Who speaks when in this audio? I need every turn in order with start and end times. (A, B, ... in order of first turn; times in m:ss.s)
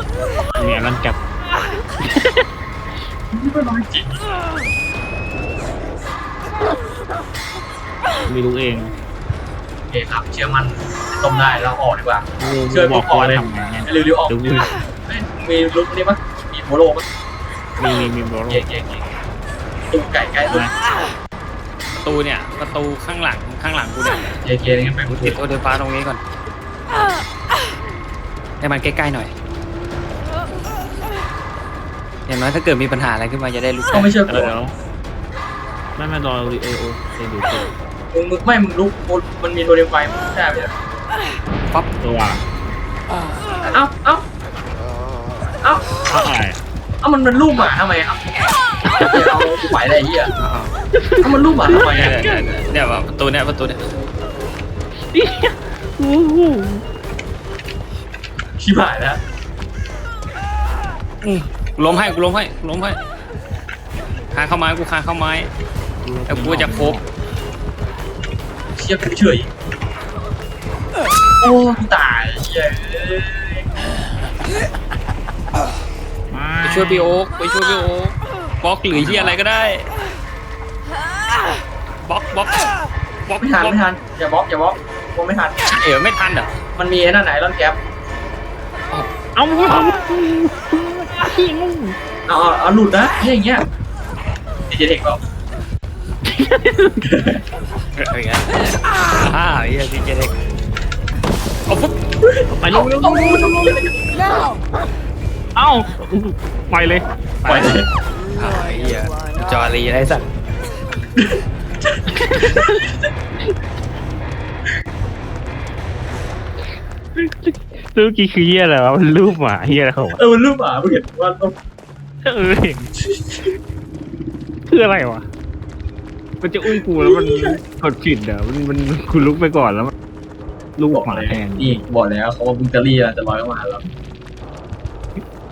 0:00.5-0:01.2 A
0:02.0-0:02.4 A
0:03.3-0:04.2 B
0:08.3-0:08.9 A
0:09.9-0:17.1 B
0:12.4-0:14.7 A
0:17.8-0:18.6 A
0:18.5-0:19.0 B
0:19.9-0:20.7 B
0:20.5-0:20.7 A
0:21.9-0:24.4 C
0:24.4-0:25.4 B
0:25.1-0:26.2 C
0:28.6-0:29.3 C
0:32.3-0:34.1 C
0:33.9-0:34.6 B
0:34.2-0:34.8 A
0:36.0-0:37.7 A
0:38.1-0:40.7 B
0:42.0-0:42.4 A
0:43.7-0:44.2 B
0:46.1-0:46.6 A
0:47.0-0:48.2 B
0:49.0-0:50.3 B
0:50.4-0:50.7 C
0:50.9-0:52.5 A
0:51.2-0:52.2 B
0:51.7-0:53.8 C
0:55.1-0:56.8 A
0:58.6-0:59.2 B
1:01.2-1:03.0 C
1:04.3-1:05.5 C
1:06.0-1:07.0 A
1:06.3-1:07.0 C
1:08.8-1:09.5 B
1:11.4-1:13.6 B
1:16.3-1:17.2 A
1:16.6-1:19.9 C
1:19.0-1:19.3 B
1:22.0-1:22.7 C
1:23.2-1:23.8 C
1:23.4-1:25.6 B
1:25.7-1:26.6 C
1:26.8-1:27.8 B
1:29.3-1:32.0 A
1:32.2-1:33.6 B
1:34.7-1:35.2 B
1:36.4-1:37.0 A
1:37.0-1:37.4 B
1:38.0-1:40.4 C
1:42.2-1:44.1 B
1:42.5-1:43.8 A
1:45.6-1:47.8 A
1:47.4-1:47.9 B
1:48.4-1:50.3 C
1:51.2-1:52.9 B
1:52.1-1:52.8 A
1:57.2-2:00.2 A
2:00.2-2:01.6 B
2:02.2-2:02.9 A
2:03.0-2:03.5 B
2:04.7-2:05.3 A
2:06.4-2:09.9 A
2:07.0-2:07.6 B
2:10.8-2:11.8 A
2:10.9-2:13.9 B